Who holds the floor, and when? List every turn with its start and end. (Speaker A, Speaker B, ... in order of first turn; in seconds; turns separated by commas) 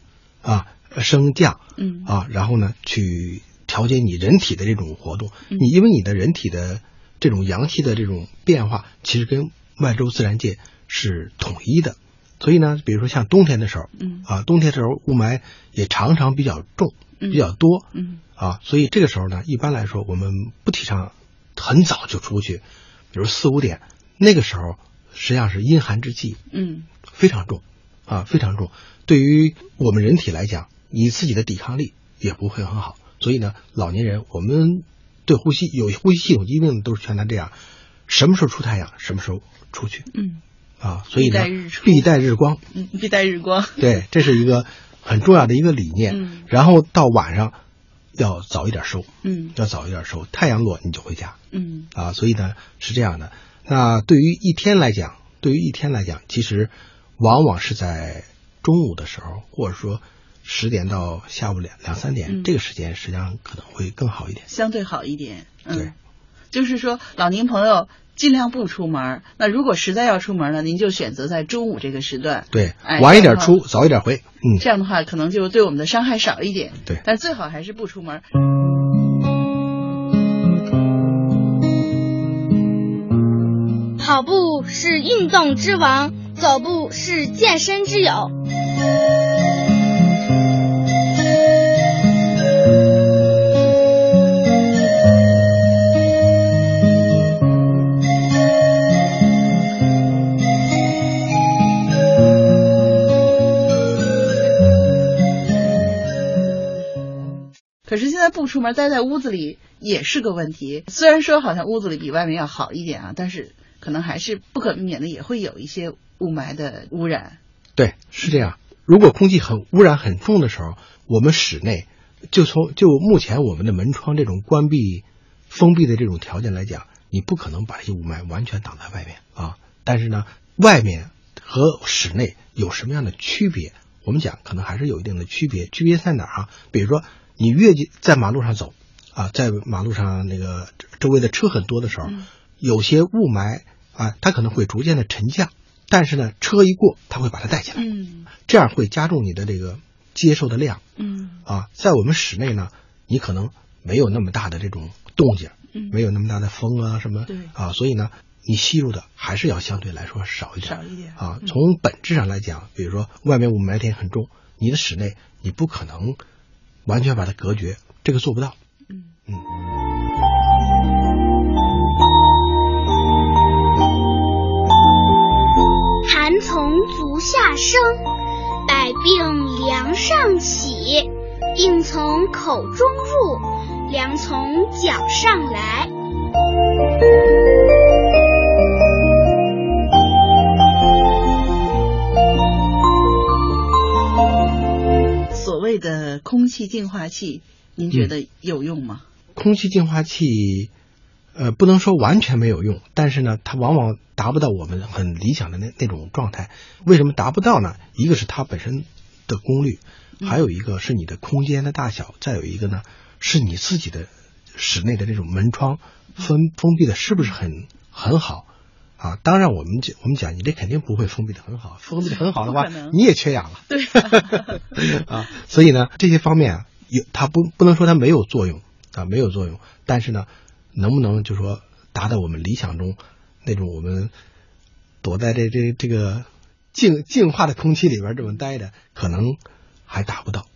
Speaker A: 0.4-26.4, Speaker B: 1.8-2.1, Speaker B: 14.0-14.3, Speaker B: 17.2-18.2, Speaker B: 26.5-26.9, Speaker A: 27.1-40.1, Speaker B: 40.1-40.4, Speaker A: 40.8-42.6, Speaker B: 41.1-42.1, Speaker B: 42.7-44.0, Speaker A: 43.8-47.6, Speaker B: 46.1-46.5, Speaker A: 48.1-51.4, Speaker B: 49.2-49.5, Speaker B: 51.5-51.9, Speaker A: 51.9-64.5, Speaker B: 64.5-65.9, Speaker B: 66.5-73.6, Speaker A: 72.5-74.6, Speaker B: 74.6-78.2, Speaker C: 84.0-88.3, Speaker B: 107.8-117.4, Speaker A: 117.8-150.8, Speaker B: 147.8-148.3, Speaker B: 151.0-151.4, Speaker A: 151.4-166.2, Speaker B: 155.7-156.0, Speaker B: 157.3-157.5, Speaker B: 160.6-161.5, Speaker A: 166.8-168.6, Speaker C: 176.0-178.0, Speaker C: 178.7-185.9, Speaker B: 195.3-199.0, Speaker A: 199.3-200.7, Speaker A: 201.3-218.5, Speaker A: 219.0-234.1, Speaker B: 222.0-223.0, Speaker B: 223.7-224.6, Speaker A: 235.0-240.5